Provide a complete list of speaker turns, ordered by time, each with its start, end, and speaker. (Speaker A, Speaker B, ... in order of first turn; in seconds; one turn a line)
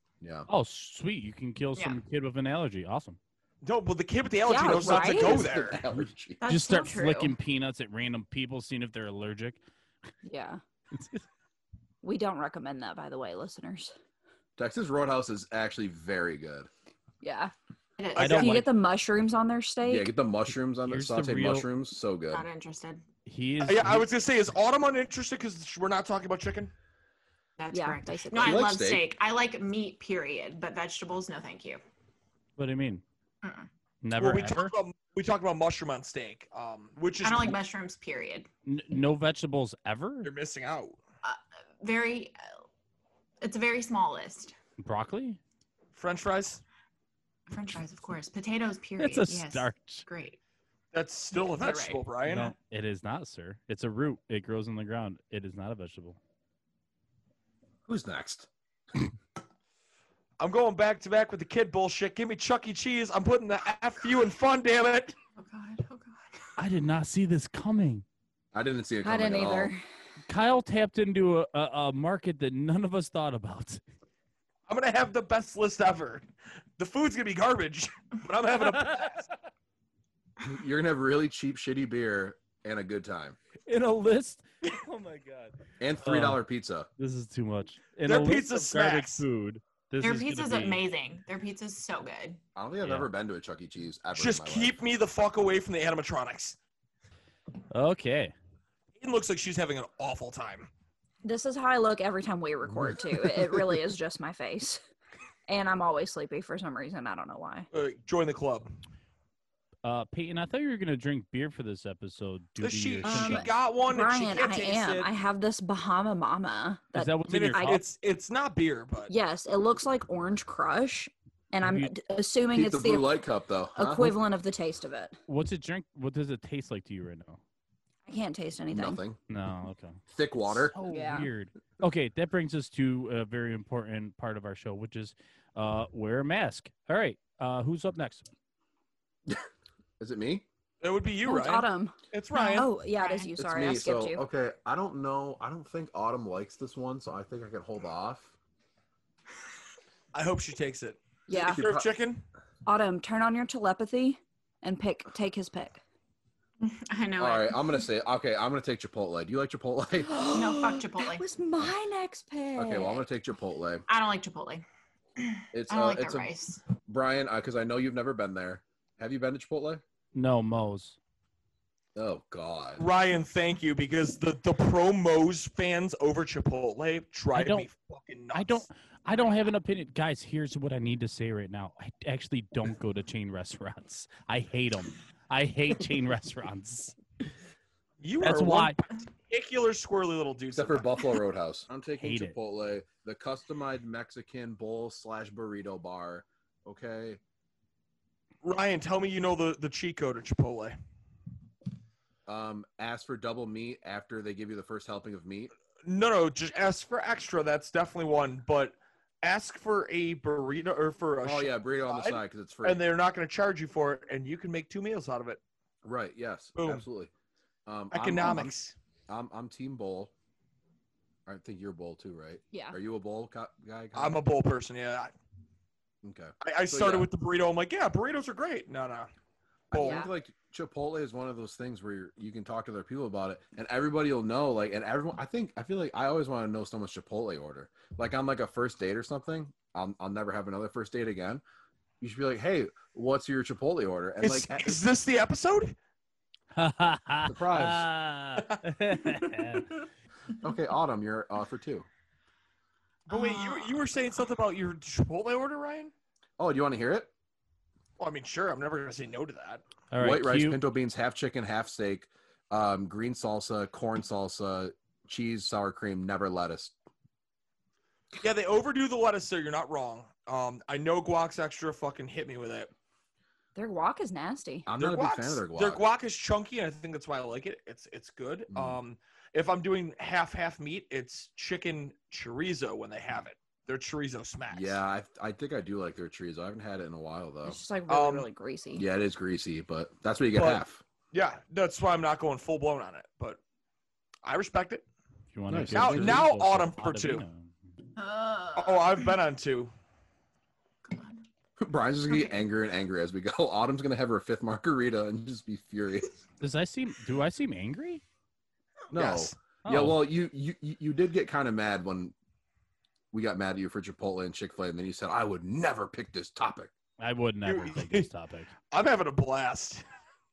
Speaker A: 0.2-0.5
Speaker B: 0.5-3.2
Speaker C: 1.8-2.0
Speaker D: 3.6-5.8
Speaker E: 4.5-5.4
Speaker A: 4.6-6.4
Speaker C: 6.4-7.3
Speaker B: 6.5-9.6
Speaker E: 10.2-10.6
Speaker B: 10.9-11.2
Speaker E: 12.0-13.9
Speaker A: 14.6-16.7
Speaker E: 17.2-17.5
Speaker C: 18.0-18.6
Speaker D: 18.1-18.5
Speaker B: 18.1-18.7
Speaker E: 18.4-20.1
Speaker A: 19.8-22.4
Speaker B: 20.9-21.7
Speaker C: 22.3-23.0
Speaker B: 23.2-24.1
Speaker D: 23.6-26.7
Speaker C: 27.6-31.8
Speaker E: 27.7-28.6
Speaker A: 28.4-29.0
Speaker B: 32.6-33.0
Speaker C: 33.4-33.7
Speaker B: 34.0-34.7
Speaker D: 34.2-37.6
Speaker C: 37.2-38.5
Speaker B: 38.6-40.3
Speaker D: 40.2-41.0
Speaker C: 41.2-42.4
Speaker C: 43.4-44.5
Speaker B: 44.8-45.4
Speaker D: 45.9-46.6
Speaker C: 47.5-50.4
Speaker B: 49.0-50.0
Speaker D: 50.9-52.5
Speaker C: 51.3-52.0
Speaker B: 52.2-56.2
Speaker A: 57.9-58.5
Speaker D: 60.4-65.2
Speaker C: 65.4-66.4
Speaker B: 66.6-68.0
Speaker A: 68.5-69.7
Speaker E: 69.0-69.8
Speaker B: 70.3-73.8
Speaker D: 74.7-76.2
Speaker D: 76.8-79.3
Speaker B: 78.7-79.1
Speaker A: 80.4-83.4
Speaker B: 83.7-86.4
Speaker A: 85.8-86.9
Speaker B: 87.0-90.8
Speaker D: 88.1-89.2
Speaker C: 90.0-92.4
Speaker A: 92.5-94.8
Speaker B: 92.8-93.1
Speaker D: 94.1-96.6
Speaker B: 97.7-98.3
Speaker D: 99.0-100.7
Speaker E: 101.2-104.8
Speaker A: 102.7-103.3
Speaker E: 105.5-107.7
Speaker D: 107.7-108.7
Speaker B: 109.8-113.5
Speaker D: 112.6-115.1
Speaker E: 113.0-117.8
Speaker B: 116.9-117.8
Speaker D: 117.3-119.1
Speaker E: 119.1-123.1
Speaker B: 121.6-121.9
Speaker A: 122.5-124.2
Speaker E: 123.7-125.2
Speaker B: 125.3-127.4
Speaker E: 128.1-129.0
Speaker A: 128.7-129.2
Speaker B: 129.3-138.3
Speaker A: 130.1-130.7
Speaker E: 130.9-131.3
Speaker A: 140.0-140.4
Speaker D: 140.8-142.7
Speaker E: 141.2-144.2
Speaker C: 142.4-143.3
Speaker A: 143.4-148.3
Speaker D: 150.1-152.2
Speaker E: 151.3-151.6
Speaker A: 151.3-151.9
Speaker E: 152.7-155.8
Speaker C: 156.6-157.7
Speaker A: 157.2-160.3
Speaker E: 160.0-163.0
Speaker C: 160.3-161.2
Speaker A: 162.6-163.8
Speaker C: 163.9-164.6
Speaker C: 165.2-166.6
Speaker A: 165.5-166.3
Speaker A: 166.8-169.8
Speaker B: 170.1-171.0
Speaker A: 171.9-172.8
Speaker D: 172.8-178.6
Speaker B: 177.3-177.7
Speaker B: 178.3-186.9
Speaker D: 188.0-191.0
Speaker B: 188.2-188.8
Speaker A: 190.5-197.2
Speaker B: 192.0-192.3
Speaker D: 198.4-200.7
Speaker A: 202.3-205.5
Speaker D: 205.8-215.4
Speaker A: 211.2-212.8
Speaker A: 215.8-217.1
Speaker D: 216.6-216.8
Speaker A: 217.7-218.5
Speaker D: 217.9-218.7
Speaker A: 219.1-220.1
Speaker A: 221.2-224.2
Speaker E: 222.5-222.8
Speaker D: 223.9-225.1
Speaker A: 226.0-227.1
Speaker D: 226.4-229.1
Speaker A: 229.7-241.4
Speaker D: 229.7-230.1
Speaker E: 229.8-230.1
Speaker A: 242.0-244.8
Speaker D: 244.2-245.8
Speaker B: 246.5-249.7
Speaker A: 247.3-247.9
Speaker A: 250.4-251.9
Speaker D: 253.1-255.9
Speaker C: 253.1-253.8
Speaker A: 256.4-257.1
Speaker D: 258.0-259.6
Speaker B: 259.9-260.6
Speaker A: 260.0-266.7
Speaker D: 268.2-272.7
Speaker E: 273.6-274.7
Speaker A: 274.6-275.8
Speaker D: 274.8-284.8
Speaker A: 278.5-278.8
Speaker A: 284.5-287.6
Speaker E: 287.4-288.9
Speaker D: 287.9-288.3
Speaker A: 288.7-290.8
Speaker D: 290.3-293.4
Speaker D: 294.2-294.8
Speaker B: 295.3-297.5
Speaker A: 295.5-296.2
Speaker D: 295.7-297.2
Speaker C: 298.0-299.1
Speaker D: 298.6-299.7
Speaker C: 300.8-301.2
Speaker A: 301.6-306.2
Speaker C: 302.1-302.4
Speaker B: 306.4-308.0
Speaker A: 308.9-312.1
Speaker D: 308.9-309.3
Speaker B: 309.6-310.1
Speaker A: 313.1-316.7
Speaker B: 317.0-318.5
Speaker D: 317.4-318.1
Speaker D: 318.7-319.8